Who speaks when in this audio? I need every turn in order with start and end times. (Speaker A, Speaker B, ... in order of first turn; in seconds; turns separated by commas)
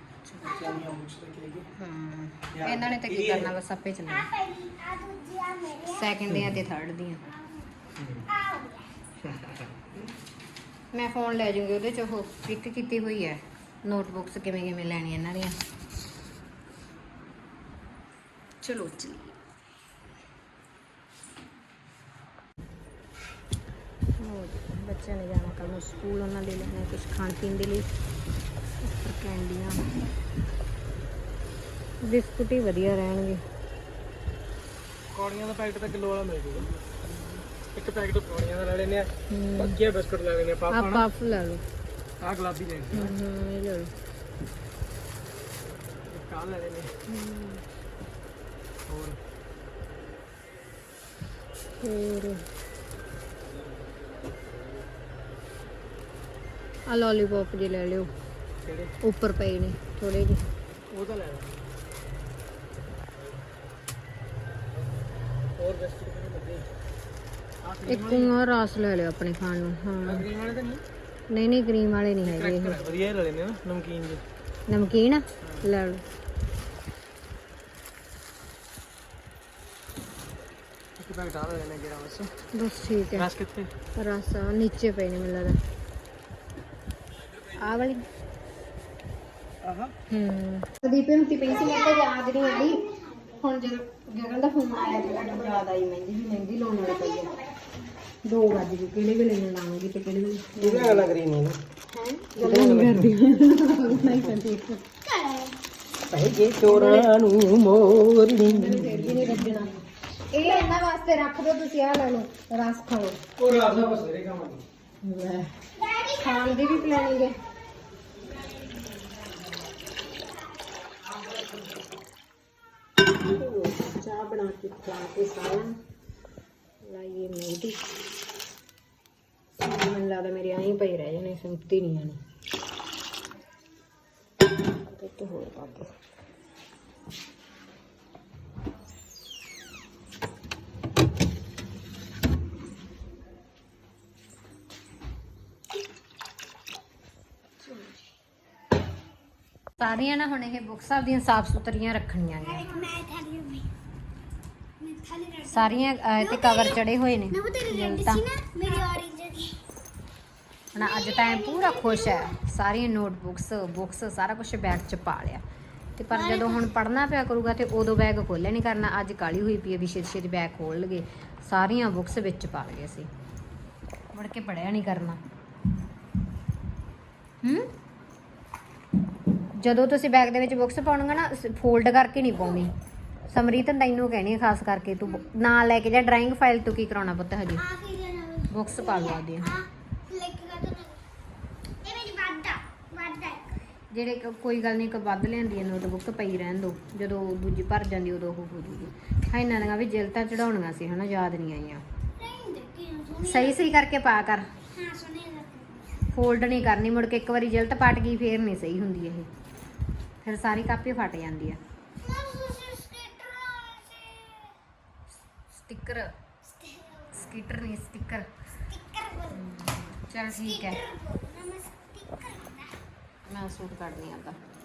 Speaker A: 0.2-0.6, Speaker B: 0.4-1.7, Speaker C: 0.6-0.9, Speaker A: 1.7-4.3, Speaker B: 2.6-3.4, Speaker C: 4.1-6.0, Speaker A: 5.8-7.2, Speaker C: 8.3-8.9, Speaker A: 10.9-15.6, Speaker A: 18.6-19.4, Speaker A: 24.2-27.9, Speaker A: 28.8-29.8, Speaker A: 32.0-33.4, Speaker B: 35.1-36.7, Speaker B: 37.7-41.0, Speaker A: 39.3-39.8, Speaker A: 40.7-41.6, Speaker B: 42.2-43.1, Speaker A: 42.9-43.9, Speaker B: 46.1-46.9, Speaker A: 47.1-47.6, Speaker B: 48.9-49.2, Speaker A: 51.8-52.5, Speaker A: 56.9-58.1, Speaker B: 58.6-58.9, Speaker A: 59.0-60.4, Speaker B: 60.9-61.6, Speaker B: 65.6-66.7, Speaker B: 67.6-68.3, Speaker A: 67.9-70.2, Speaker B: 70.0-70.8, Speaker A: 71.3-72.8, Speaker B: 72.2-74.2, Speaker A: 74.7-76.0, Speaker B: 81.0-82.3, Speaker A: 82.5-83.3, Speaker B: 83.1-83.7, Speaker A: 83.9-85.6, Speaker A: 87.6-88.0, Speaker B: 89.6-89.9, Speaker A: 90.1-92.8, Speaker A: 93.4-97.3, Speaker A: 98.2-101.1, Speaker B: 100.6-101.6, Speaker A: 101.9-104.9, Speaker B: 102.4-103.1, Speaker C: 105.0-105.6, Speaker B: 106.1-109.6, Speaker A: 106.6-107.1, Speaker A: 108.3-113.2, Speaker B: 113.4-114.6, Speaker A: 115.0-117.3, Speaker C: 115.8-116.9, Speaker A: 123.2-125.8, Speaker A: 126.8-127.8, Speaker A: 129.5-132.2, Speaker A: 134.9-135.9, Speaker A: 149.8-152.7, Speaker C: 152.5-153.7, Speaker C: 154.8-156.8, Speaker A: 155.4-158.2, Speaker C: 157.3-159.6, Speaker A: 160.7-165.4, Speaker C: 160.8-162.3, Speaker A: 166.0-173.1, Speaker C: 166.1-166.6, Speaker A: 174.1-175.2, Speaker A: 177.4-177.7, Speaker A: 179.5-182.7, Speaker A: 183.3-187.7, Speaker C: 187.6-191.0, Speaker A: 188.5-189.5, Speaker C: 191.8-193.6, Speaker A: 193.9-201.8, Speaker C: 202.2-203.6, Speaker A: 203.2-204.5, Speaker C: 204.7-205.9, Speaker A: 206.1-209.3, Speaker A: 210.2-211.6, Speaker C: 212.0-214.6, Speaker A: 215.5-216.1, Speaker C: 216.6-217.1, Speaker A: 217.1-218.3, Speaker C: 218.7-219.4, Speaker A: 219.3-220.8, Speaker C: 220.4-222.8, Speaker A: 223.3-224.4